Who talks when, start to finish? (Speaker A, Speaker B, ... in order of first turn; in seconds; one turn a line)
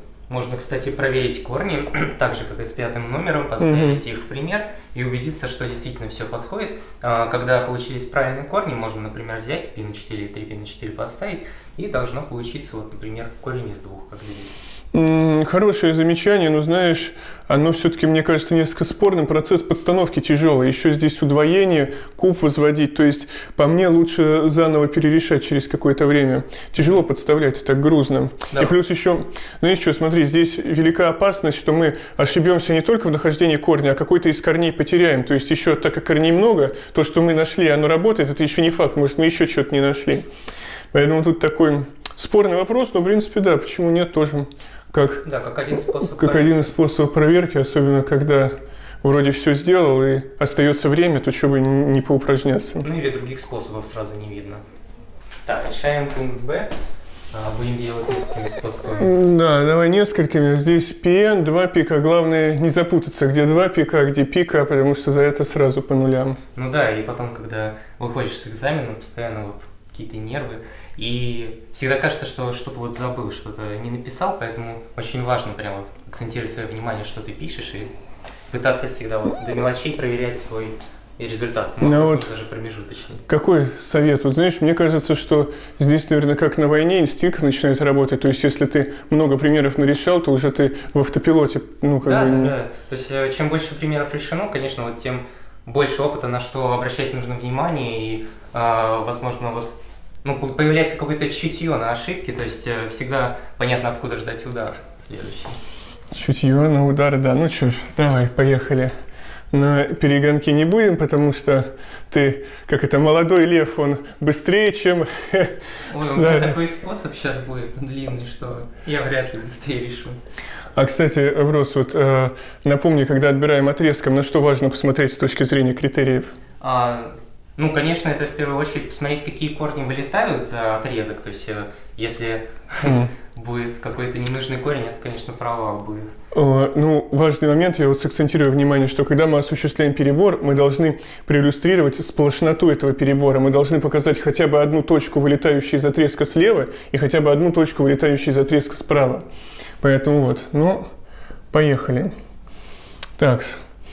Speaker A: 0.3-14.6
Speaker B: 3.6-4.0
Speaker B: 14.9-40.3
Speaker B: 40.9-45.2
Speaker A: 45.2-46.6
Speaker B: 46.0-52.9
Speaker A: 52.8-54.6
Speaker A: 55.5-56.7
Speaker A: 57.3-59.1
Speaker B: 59.0-66.4
Speaker A: 66.5-77.9
Speaker A: 78.5-83.2
Speaker B: 81.8-82.3
Speaker B: 83.3-92.5
Speaker A: 92.0-105.6
Speaker B: 106.1-108.9
Speaker B: 109.5-116.6
Speaker A: 115.9-120.2
Speaker B: 120.8-126.3
Speaker A: 126.6-136.1
Speaker B: 132.8-133.1
Speaker B: 136.3-149.2
Speaker B: 149.8-150.9
Speaker B: 151.5-152.1
Speaker B: 153.2-153.6